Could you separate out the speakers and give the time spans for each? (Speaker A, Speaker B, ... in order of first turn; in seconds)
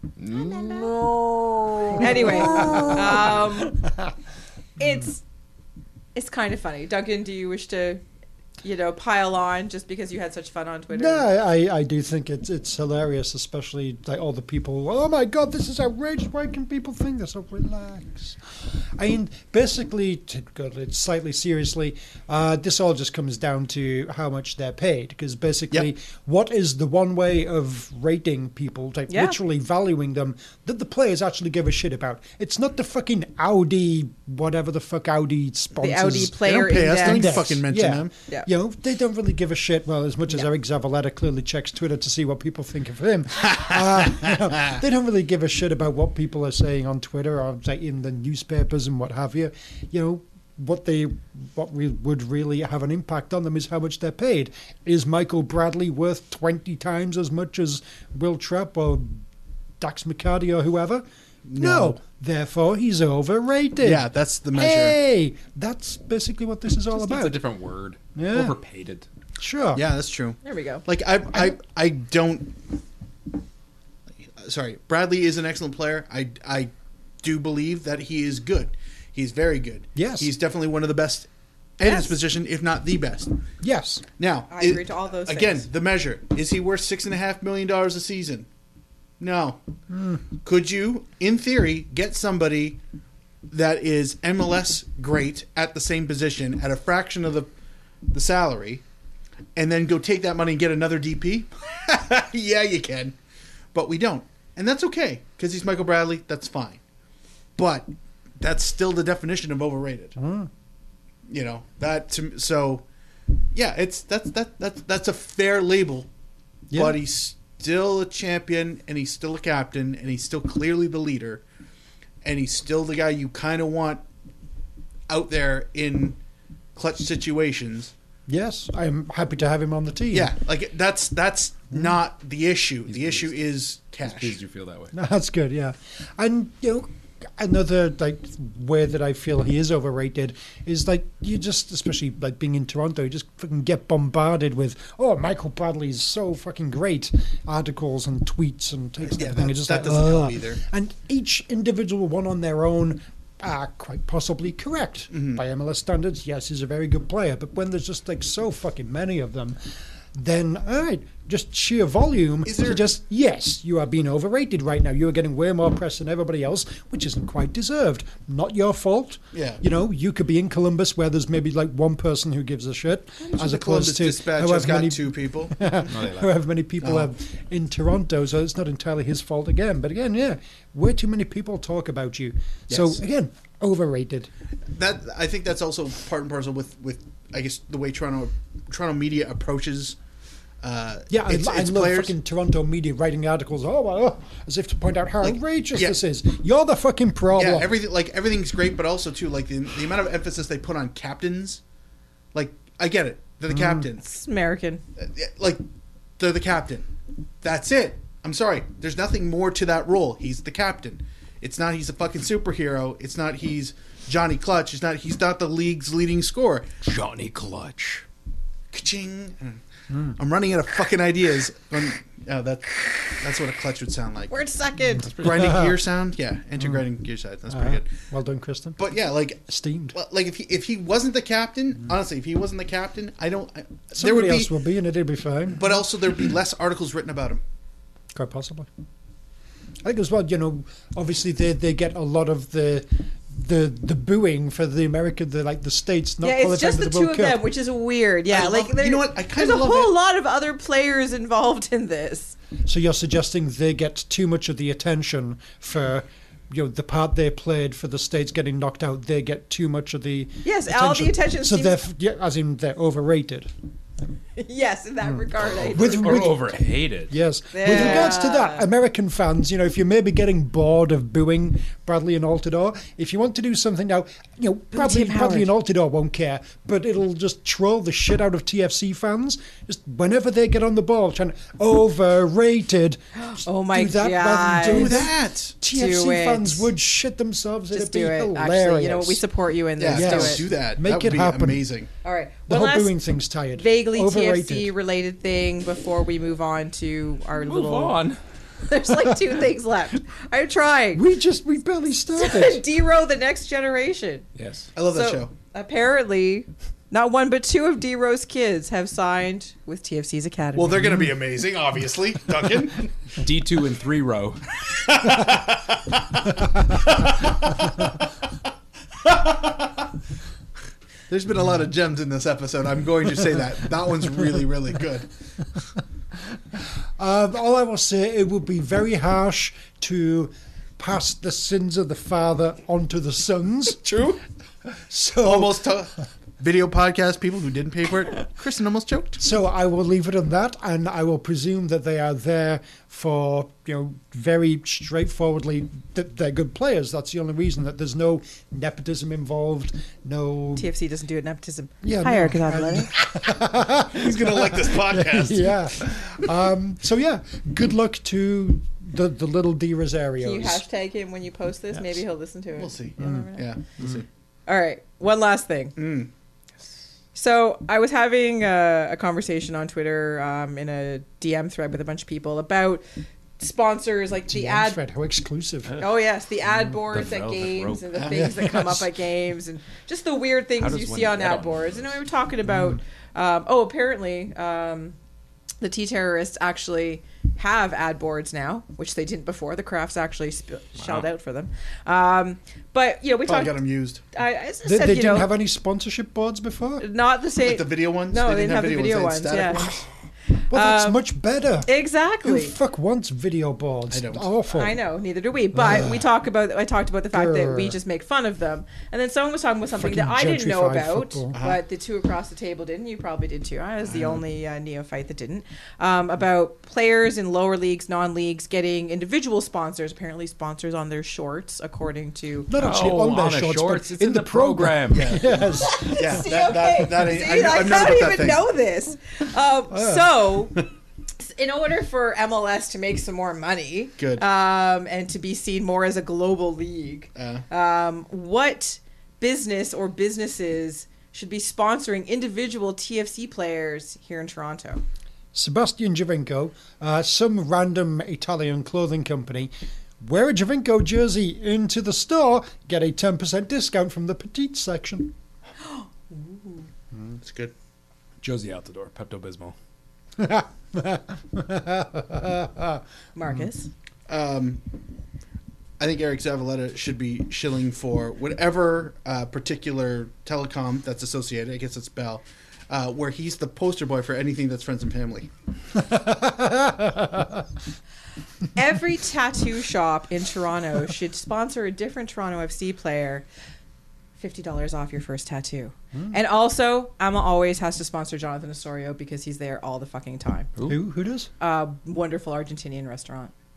Speaker A: 0.2-1.2, 1.8-2.8, 66.9-69.1, 132.9-133.3, 134.0-134.9, 175.9-176.3, 216.8-218.1, 265.7-267.1, 297.4-298.2, 304.4-304.7, 313.2-314.4, 376.7-378.0, 380.6-382.0, 390.8-391.1, 422.6-425.2, 458.2-459.6, 490.6-490.8
Speaker B: 0.6-0.9, 1.9-3.8, 4.8-5.2, 6.2-8.0, 8.6-11.3, 29.1-29.4, 35.8-37.5, 70.4-70.8, 84.5-85.7, 204.0-204.8, 224.3-225.2, 246.2-252.3, 260.4-261.8, 264.4-266.3, 267.5-268.7, 274.7-275.5, 283.1-285.1, 285.6-286.7, 287.7-290.4, 292.0-293.0, 293.6-298.0, 298.7-301.0, 302.2-304.3, 304.9-311.0, 350.6-352.9, 360.2-363.4, 364.5-365.8, 367.1-372.8, 373.4-374.8, 375.8-385.0, 385.6-393.6, 394.1-395.3, 396.8-399.7, 400.5-401.0, 401.6-402.5, 404.5-422.5, 425.6-430.6, 431.2-444.8, 455.6-456.7, 463.1-463.7, 478.6-483.2, 484.2-490.5, 491.4-493.3
Speaker C: 2.0-4.1, 10.9-18.4, 19.0-59.2, 59.8-61.1, 61.6-67.4, 68.2-68.6, 69.4-69.9, 80.0-80.3, 83.6-84.0, 89.9-90.2, 110.2-110.5, 116.7-117.0, 128.3-130.3, 134.9-159.6, 160.2-184.3, 191.1-197.7, 203.5-203.9, 219.9-220.2, 225.2-225.8, 227.5-228.9, 229.5-230.0, 233.9-235.7, 238.1-238.7, 239.8-247.5, 252.7-263.5, 265.8-266.5, 267.1-283.0, 283.6-289.2, 289.9-291.6, 292.5-294.7, 300.9-302.6, 327.0-334.0, 334.7-335.8, 339.2-350.7, 351.8-360.6, 363.0-363.2, 374.3-375.8, 378.1-378.9, 394.6-396.9, 400.5-404.8, 405.5-406.1, 407.1-407.8, 409.7-411.4, 422.5-426.3, 429.7-430.1, 445.3-455.1, 460.2-462.8, 475.8-477.4, 490.7-491.3
Speaker D: 36.3-38.1, 61.5-62.0, 63.8-65.0, 69.7-72.6, 74.2-76.7, 77.2-83.3, 84.2-88.5, 89.2-89.6, 90.4-92.8, 93.5-97.5, 98.1-98.8, 99.5-103.2, 103.7-106.8, 107.6-110.2, 111.3-112.8, 113.5-116.1, 116.7-121.4, 122.2-124.0, 125.1-126.2, 126.8-127.9, 130.1-134.4, 149.0-150.6, 155.1-155.4, 162.4-162.8, 169.3-169.6, 173.2-175.7, 176.8-177.1, 182.7-183.0, 184.7-190.0, 190.6-192.2, 195.2-196.0, 197.3-201.6, 202.3-204.0, 205.0-205.6, 206.2-206.9, 207.4-216.7, 218.7-219.6, 220.2-224.3, 225.2-227.9, 228.8-234.5, 235.5-237.4, 248.3-250.0, 284.6-285.6, 289.8-291.9, 304.7-305.3, 310.6-312.9, 314.8-316.0, 316.8-317.3, 319.0-319.9, 321.1-325.1, 333.8-334.2, 335.2-339.2, 353.9-355.7, 362.6-364.1, 365.8-366.1, 393.2-394.0, 397.4-399.8, 403.9-404.3, 411.3-411.6, 413.8-414.2, 424.9-428.5, 434.0-434.2, 437.2-437.4, 457.2-457.5, 464.1-464.6, 465.8-475.3